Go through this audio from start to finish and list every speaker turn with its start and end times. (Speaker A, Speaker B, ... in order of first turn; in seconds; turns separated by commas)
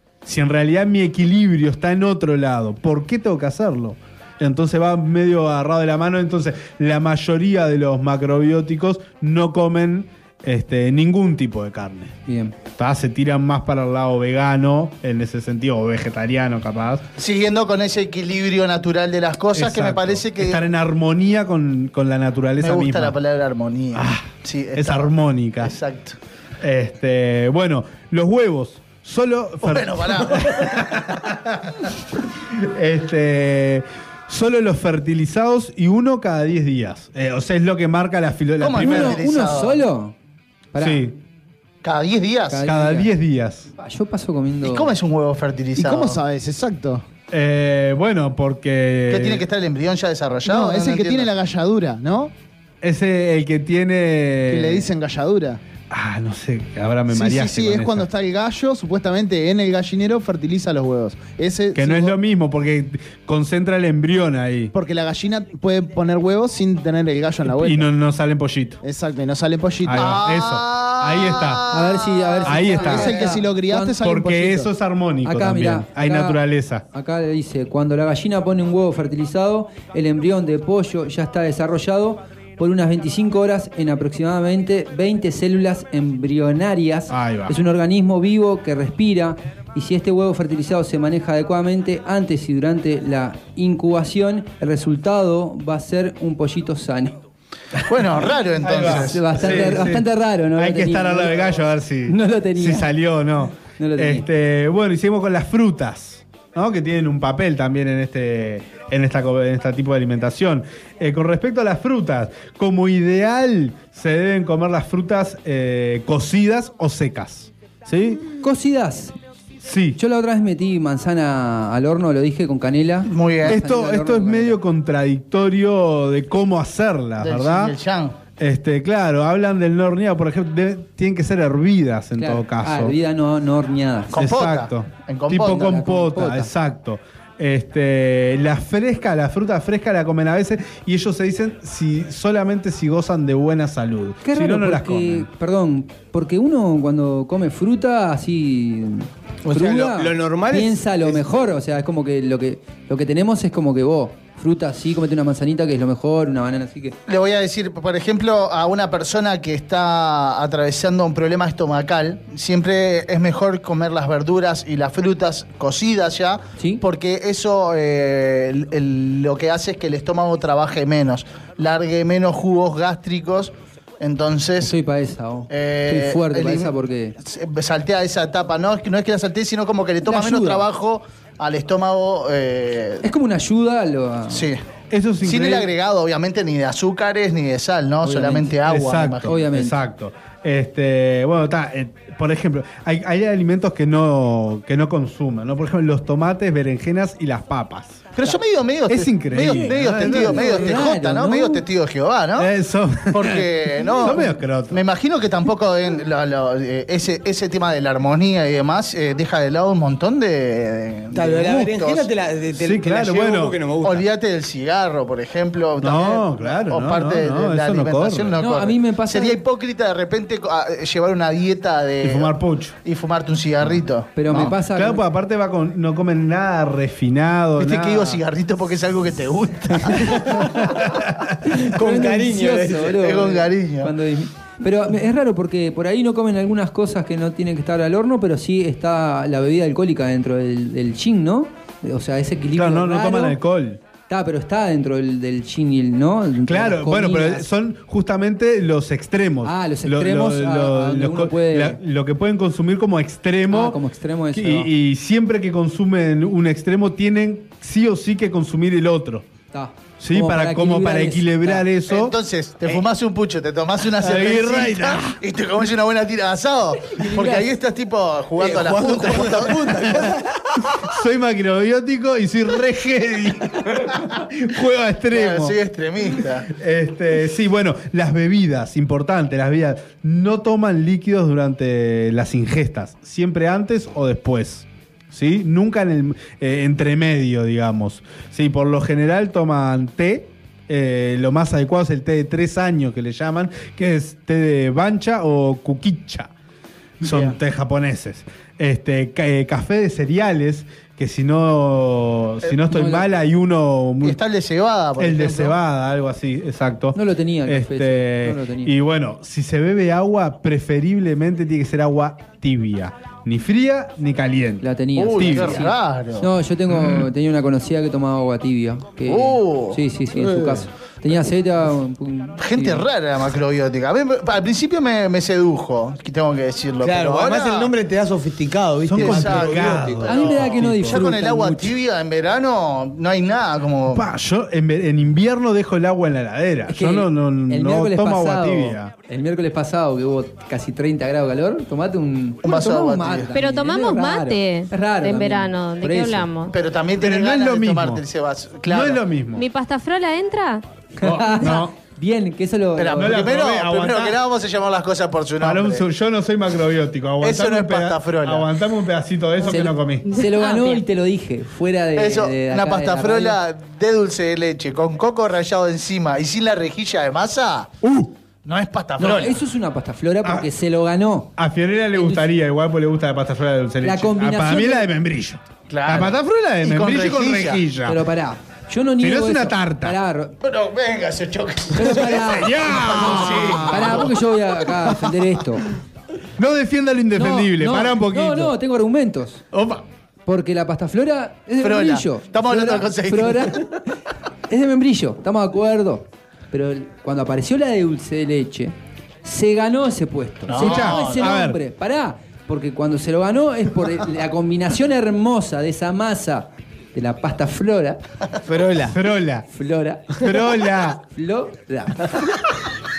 Speaker A: 0.2-12.2, Speaker B: 12.3-12.6, Speaker A: 12.7-17.0, Speaker C: 17.2-20.6, Speaker A: 19.5-23.2, Speaker C: 22.6-26.2, Speaker A: 23.9-25.8, Speaker A: 26.6-31.7, Speaker C: 29.6-30.9, Speaker A: 32.6-39.2, Speaker C: 38.6-39.8, Speaker B: 38.8-40.1, Speaker B: 40.7-41.1, Speaker A: 40.8-41.1, Speaker C: 41.8-42.7, Speaker B: 42.5-43.1, Speaker A: 42.6-43.7, Speaker B: 43.8-44.9, Speaker C: 44.6-46.2, Speaker D: 45.8-47.0, Speaker A: 47.3-49.5, Speaker C: 49.1-51.3, Speaker D: 50.5-52.3, Speaker A: 52.8-54.9, Speaker D: 54.5-55.6, Speaker A: 55.9-58.1, Speaker D: 57.1-62.2, Speaker A: 61.7-64.7, Speaker D: 64.7-67.9, Speaker A: 67.6-68.8, Speaker D: 68.8-70.2, Speaker A: 69.9-71.7, Speaker C: 69.9-73.4, Speaker B: 71.7-74.0, Speaker A: 72.5-73.1, Speaker D: 72.9-74.7, Speaker A: 74.0-76.8, Speaker B: 75.2-76.4, Speaker B: 76.9-97.2, Speaker A: 87.1-87.6, Speaker C: 97.9-99.8, Speaker A: 98.6-118.2, Speaker B: 98.7-101.5, Speaker B: 102.1-102.9, Speaker B: 103.8-104.2, Speaker B: 118.4-119.2, Speaker A: 119.6-120.0, Speaker B: 120.0-124.6, Speaker C: 123.0-123.6, Speaker A: 123.5-127.7, Speaker C: 127.2-128.2, Speaker A: 128.4-132.9, Speaker B: 132.2-134.2, Speaker C: 134.1-135.8, Speaker A: 134.2-145.3, Speaker B: 135.4-136.5, Speaker B: 144.2-156.9, Speaker E: 149.4-151.2, Speaker C: 157.1-174.7, Speaker B: 166.6-166.8, Speaker B: 174.6-177.2, Speaker C: 175.5-183.0, Speaker B: 180.1-180.7, Speaker B: 183.0-184.4, Speaker C: 184.3-184.6, Speaker A: 184.9-185.7, Speaker C: 185.2-189.3, Speaker B: 188.0-188.6, Speaker A: 188.7-198.1, Speaker B: 189.2-189.8, Speaker C: 198.2-202.5, Speaker A: 198.9-200.9, Speaker B: 199.3-201.6, Speaker A: 202.4-203.4, Speaker C: 203.1-212.1, Speaker A: 204.0-204.8, Speaker E: 211.1-214.1, Speaker A: 212.6-213.6, Speaker C: 213.8-224.5, Speaker A: 215.8-218.4, Speaker B: 218.4-219.4, Speaker A: 222.0-222.8, Speaker B: 224.2-225.0, Speaker A: 224.3-228.2, Speaker C: 227.6-230.6, Speaker A: 230.1-231.4, Speaker B: 231.5-243.4, Speaker E: 231.8-233.3, Speaker C: 232.9-233.9, Speaker A: 242.6-243.8, Speaker B: 244.1-247.5, Speaker A: 246.5-253.8, Speaker B: 249.4-251.8, Speaker B: 253.5-254.7, Speaker A: 254.3-259.3, Speaker B: 259.5-261.7, Speaker A: 260.0-262.1, Speaker C: 261.9-270.1, Speaker A: 264.0-265.2, Speaker B: 266.9-267.5, Speaker E: 268.4-270.2, Speaker A: 270.7-275.6, Speaker C: 275.1-276.5, Speaker A: 276.5-296.3, Speaker C: 297.0-297.4, Speaker A: 297.0-304.2, Speaker B: 302.7-303.1, Speaker C: 304.0-305.6, Speaker A: 305.0-315.7, Speaker B: 306.9-308.7, Speaker B: 314.6-322.9, Speaker C: 315.0-316.3, Speaker A: 316.8-317.0, Speaker C: 319.1-319.8, Speaker E: 320.1-320.7, Speaker C: 322.4-327.7, Speaker E: 326.8-330.6, Speaker A: 328.9-331.0, Speaker C: 328.9-334.1, Speaker B: 330.0-331.7, Speaker A: 333.9-338.9, Speaker B: 336.7-346.3, Speaker C: 342.4-343.3, Speaker F: 343.3-346.5, Speaker C: 346.5-349.0, Speaker A: 347.0-348.0, Speaker A: 348.7-349.4, Speaker F: 349.4-350.6, Speaker B: 351.0-353.3, Speaker A: 351.0-351.7, Speaker C: 352.8-355.9, Speaker A: 352.9-354.2, Speaker A: 355.4-360.1, Speaker C: 357.2-358.5, Speaker B: 359.4-363.4, Speaker F: 360.1-360.8, Speaker C: 361.9-367.7, Speaker A: 367.8-368.1, Speaker C: 368.4-369.4, Speaker B: 369.0-371.3, Speaker A: 371.4-378.0, Speaker B: 371.9-372.3, Speaker B: 373.8-374.9, Speaker C: 375.7-377.6, Speaker B: 377.9-380.4, Speaker A: 379.0-380.0, Speaker C: 380.4-384.1, Speaker B: 381.8-385.7, Speaker A: 381.9-384.1, Speaker A: 386.4-388.5, Speaker B: 387.1-389.4, Speaker A: 389.5-389.8, Speaker B: 390.3-393.9, Speaker C: 391.6-393.6, Speaker B: 394.5-408.0, Speaker C: 400.5-401.3, Speaker A: 400.6-401.6, Speaker E: 408.5-408.9, Speaker A: 408.9-409.4, Speaker B: 409.5-410.5, Speaker A: 410.2-411.0, Speaker B: 411.0-412.4